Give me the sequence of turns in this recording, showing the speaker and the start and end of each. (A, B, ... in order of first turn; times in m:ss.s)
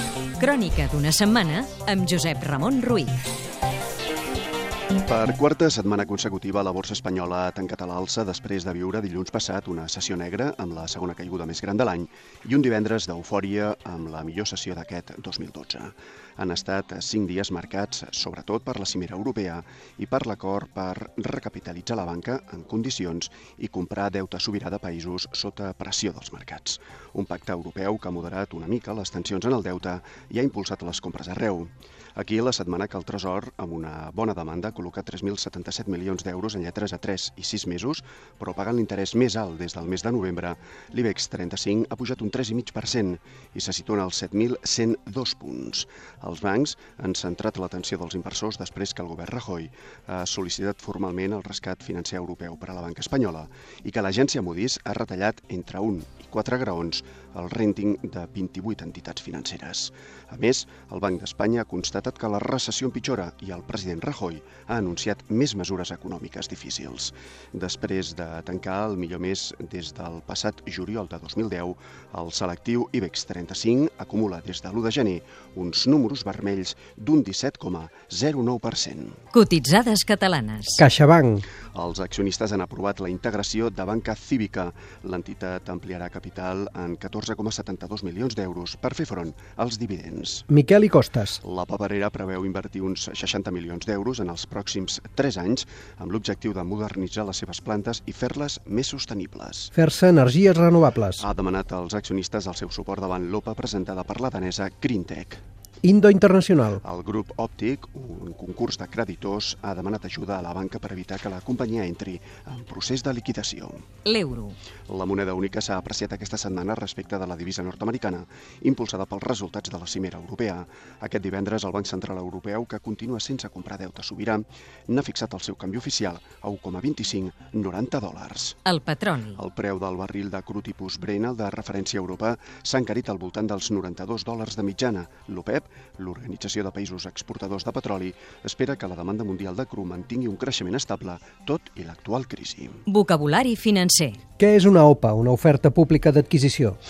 0:00.4-0:03.2 A
0:05.0-1:19.2 B
1:19.3-1:20.8 A
1:20.8-1:21.4 C
1:21.7-1:30.5 B
1:30.5-1:31.4 C
1:31.4-1:39.7 B
1:39.7-1:41.2 C
1:41.2-1:45.4 B
1:45.8-1:46.8 C
1:46.8-1:53.9 B
1:54.0-1:54.6 A
1:54.9-2:08.6 B
2:08.6-2:09.4 A
2:09.4-2:22.8 B
2:22.9-2:24.2 A
2:24.4-2:26.8 C